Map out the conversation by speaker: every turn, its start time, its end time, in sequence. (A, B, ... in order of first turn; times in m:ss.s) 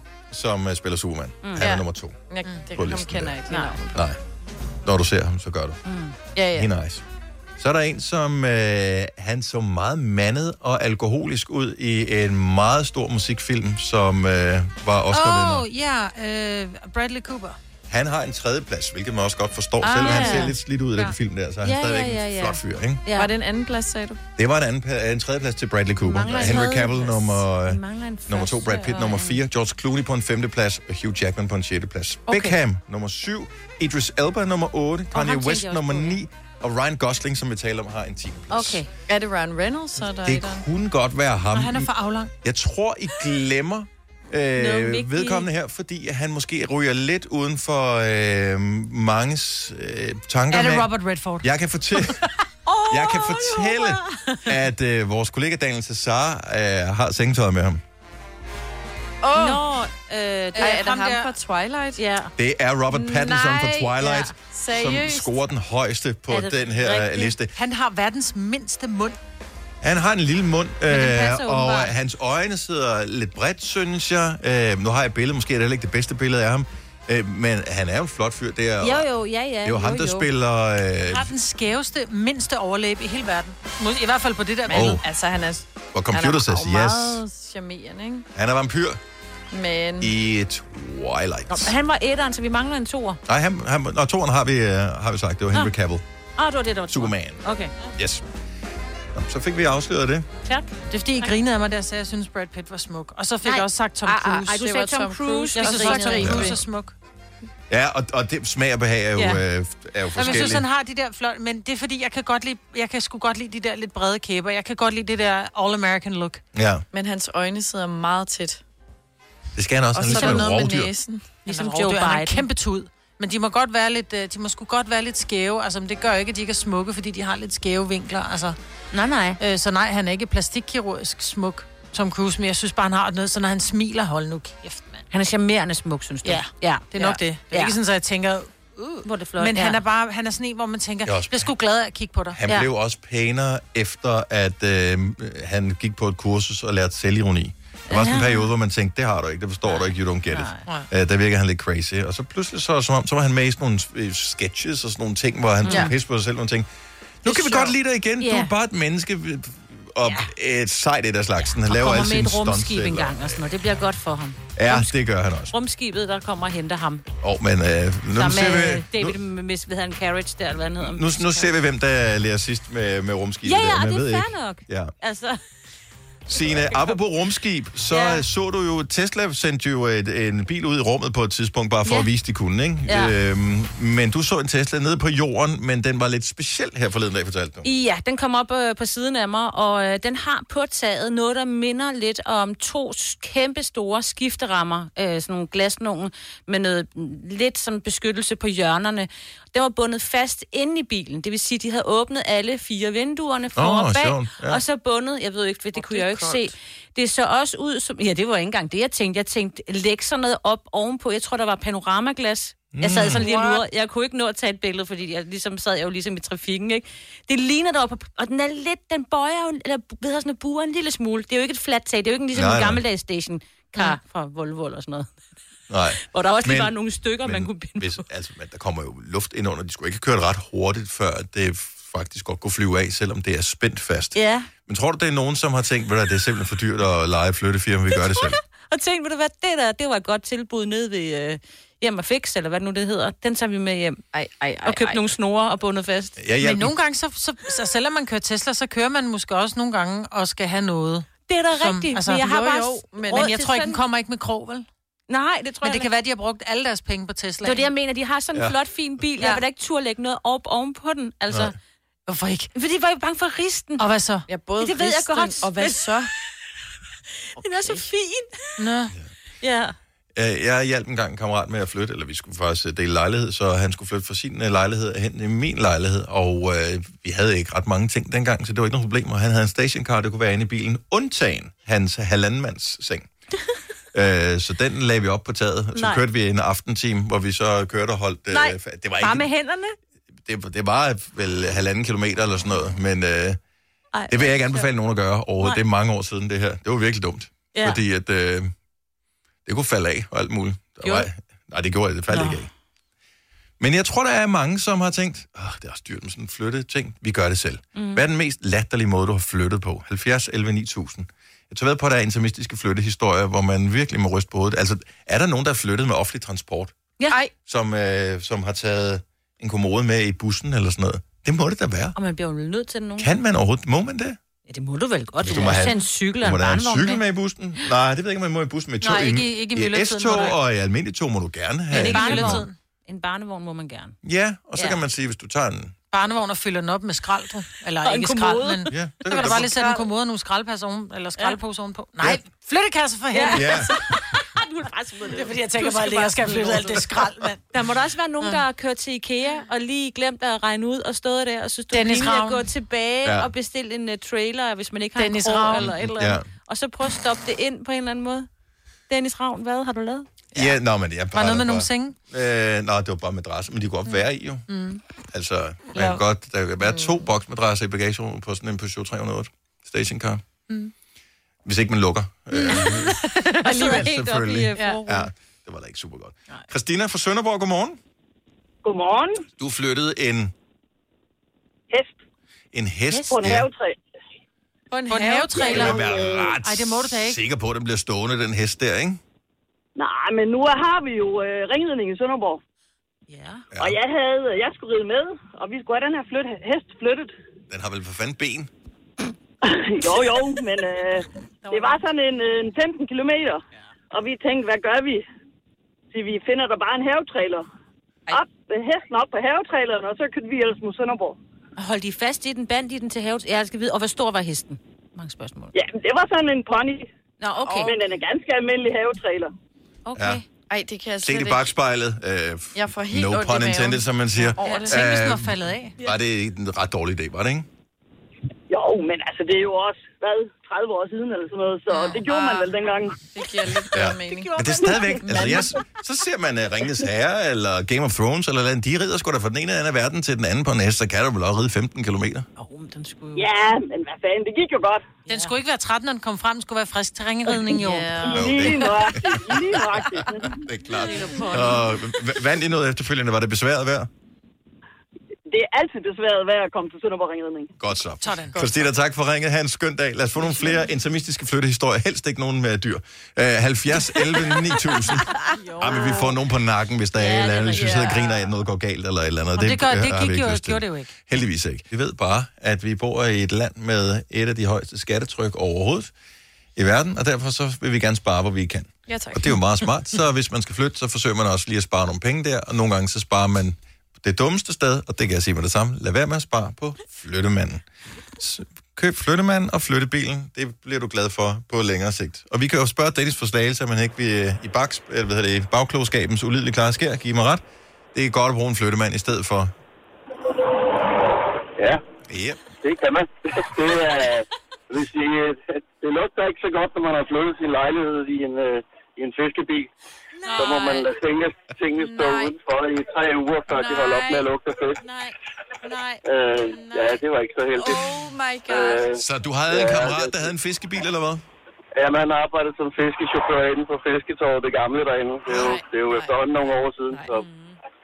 0:00.3-0:02.2 A
0:01.4-0:01.7 B
0:01.6-0:04.1 C
0:02.8-0:03.4 A
0:03.5-0:03.8 B
0:03.9-0:04.2 A
0:04.8-0:05.8 A
0:05.8-0:06.2 B
0:06.3-0:06.7 C
0:06.5-0:07.0 A
0:07.6-0:15.6 A
0:15.1-0:17.6 D
0:17.9-0:23.0 A
0:19.8-0:20.5 C
0:20.0-0:20.5 B
0:21.6-0:23.3 B
0:23.1-0:24.2 C
0:24.4-0:38.8 A
0:26.0-0:29.4 B
0:32.3-0:32.5 D
0:35.1-0:36.2 B
0:38.5-0:38.9 B
0:39.1-0:40.6 C
0:40.2-0:41.9 A
0:41.5-0:42.3 D
0:42.4-0:50.9 A
0:44.6-0:45.5 B
0:50.5-0:51.5 D
0:51.4-0:52.2 A
0:52.6-0:54.5 B
0:52.9-0:57.8 A
0:59.2-0:59.6 C
0:59.3-1:01.0 B
1:00.5-1:01.3 D
1:00.6-1:02.0 C
1:02.0-1:02.3 B
1:02.4-1:07.5 A
1:02.9-1:05.4 C
1:06.3-1:07.4 B
1:07.5-1:09.2 D
1:09.8-1:19.1 A
1:10.9-1:11.9 B
1:18.8-1:20.3 B
1:19.6-1:21.3 A
1:21.1-1:25.0 D
1:24.7-1:28.3 C
1:24.7-1:25.0 A
1:25.9-1:27.2 A
1:28.3-1:29.0 A
1:29.5-1:30.1 C
1:30.0-1:31.7 A
1:31.5-1:33.2 B
1:33.3-1:36.0 A
1:36.4-1:37.7 B
1:36.9-1:37.4 A
1:38.0-1:38.2 A
1:39.1-1:40.3 A
1:40.4-1:41.3 B
1:40.9-1:44.6 D
1:43.4-1:46.5 B
1:44.1-1:46.6 C
1:45.6-1:46.9 D
1:46.2-1:46.5 A
1:47.7-1:50.6 A
1:50.1-1:56.4 D
1:56.5-1:56.8 A
1:56.9-1:58.6 C
1:59.6-2:00.9 A
1:59.9-2:01.2 C
2:00.1-2:00.4 D
2:01.4-2:02.4 B
2:01.4-2:08.6 D
2:08.9-2:09.4 B
2:09.4-2:15.0 D
2:15.1-2:17.7 B
2:16.2-2:22.4 D
2:19.0-2:19.8 B
2:21.0-2:21.5 A
2:22.3-2:36.7 A
2:27.9-2:28.5 B
2:29.7-2:30.6 B
2:35.6-2:35.9 B
2:37.2-2:43.4 A
2:37.2-2:38.5 B
2:41.5-2:44.9 B
2:44.6-2:45.5 A
2:45.5-2:47.0 B
2:47.2-2:49.2 A
2:48.1-2:51.5 B
2:50.8-2:54.9 A
2:53.4-2:55.4 B
2:56.3-3:07.7 A
2:56.4-2:57.0 B
2:57.9-2:58.2 B
3:02.9-3:03.1 B
3:07.6-3:45.1 B
3:23.5-3:24.6 A
3:25.8-3:26.5 C
3:32.7-3:33.2 A
3:33.2-3:33.6 D
3:42.3-3:42.8 A
3:45.7-3:58.4 A
3:46.0-3:48.0 B
3:54.1-3:54.5 B
3:57.9-4:04.0 B
4:04.1-4:05.0 C
4:04.6-4:06.2 B
4:06.2-4:06.7 A
4:06.4-4:12.4 D
4:11.3-4:13.8 B
4:12.2-4:13.3 C
4:13.1-4:14.7 D
4:15.1-4:15.9 B
4:15.6-4:17.7 D
4:17.4-4:21.5 B
4:22.1-4:22.5 D
4:22.5-4:23.8 B
4:23.8-4:24.2 D
4:24.3-4:26.1 C
4:24.6-4:26.1 B
4:27.4-4:28.5 B
4:27.4-4:27.9 C
4:28.6-4:28.9 D
4:29.4-4:29.7 B
4:30.1-4:43.1 A
4:43.9-4:49.3 A
4:45.7-4:46.0 B
4:48.3-4:49.7 B
4:50.2-4:53.4 A
4:53.9-4:54.7 B
4:54.1-4:58.5 A
4:57.5-4:57.8 B
4:59.4-5:02.5 A
5:02.1-5:02.4 B
5:03.6-5:16.7 A
5:07.8-5:08.0 B
5:17.4-5:22.0 A
5:22.0-5:23.1 B
5:23.0-5:24.2 A
5:24.5-5:27.0 B
5:25.2-5:32.5 A
5:28.8-5:30.4 D
5:31.7-5:34.0 B
5:31.7-5:32.5 D
5:34.0-5:35.7 A
5:35.9-5:43.6 D
5:37.8-5:39.8 B
5:38.7-5:39.6 A
5:43.1-5:46.8 B
5:43.3-5:43.8 A
5:45.1-5:47.4 D
5:47.5-5:58.3 B
5:51.7-5:52.4 D
5:53.0-5:53.3 A
5:55.0-5:55.7 D
5:55.6-5:56.2 A
5:58.9-6:00.1 B
6:00.3-6:04.5 A
6:01.1-6:02.0 D
6:04.5-6:04.8 D
6:05.1-6:10.2 A
6:06.6-6:07.0 C
6:11.4-6:13.0 A
6:12.3-6:15.1 B
6:13.0-6:13.7 D
6:13.6-6:17.8 A
6:18.6-6:19.2 E
6:19.4-6:20.3 A
6:21.7-6:22.0 E
6:22.5-6:23.5 A
6:22.9-6:23.2 B
6:23.1-6:23.8 E
6:24.7-6:26.3 C
6:24.9-6:27.2 D
6:25.4-6:29.0 A
6:29.8-6:32.4 E
6:33.1-6:33.4 B
6:33.5-6:33.8 A
6:33.6-6:37.1 E
6:37.5-6:38.5 A
6:39.4-6:45.0 E
6:45.9-6:47.4 E
6:48.1-6:51.2 E
6:51.6-6:55.5 B
6:55.5-6:56.9 E
6:57.2-6:57.8 B
6:57.4-6:57.8 C
6:57.6-6:59.3 E
6:59.8-7:00.2 B
6:59.9-7:00.2 A
7:00.5-7:01.5 C
7:01.0-7:07.5 A
7:02.5-7:04.8 C
7:04.4-7:05.8 D
7:08.5-7:13.0 E
7:11.7-7:12.4 C
7:13.1-7:15.5 C
7:13.7-7:22.3 A
7:14.2-7:15.3 D
7:22.4-7:23.3 B
7:23.2-7:24.8 E
7:25.1-7:27.9 D
7:27.5-7:28.7 C
7:28.1-7:29.4 A
7:28.1-7:30.3 E
7:29.9-7:33.9 A
7:30.8-7:31.6 B
7:35.3-7:37.5 E
7:37.6-7:55.9 A
7:38.0-7:38.6 D
7:45.3-7:46.0 D
7:47.0-7:47.9 B
7:47.5-7:48.1 C
7:49.4-7:50.9 D
7:56.6-8:07.6 A
7:58.9-7:59.4 C
8:08.2-8:17.4 A
8:17.9-8:19.5 A
8:21.6-8:21.8 F
8:22.1-8:22.4 A
8:22.5-8:29.7 F
8:30.4-8:34.8 F
8:31.8-8:32.3 C
8:33.5-8:34.3 C
8:34.8-8:35.1 B
8:35.7-8:36.0 B
8:36.0-8:37.9 F
8:37.6-8:38.8 C
8:38.5-8:40.3 F
8:38.9-8:41.2 A
8:41.7-8:47.2 F
8:45.3-8:46.1 C
8:46.9-8:47.6 C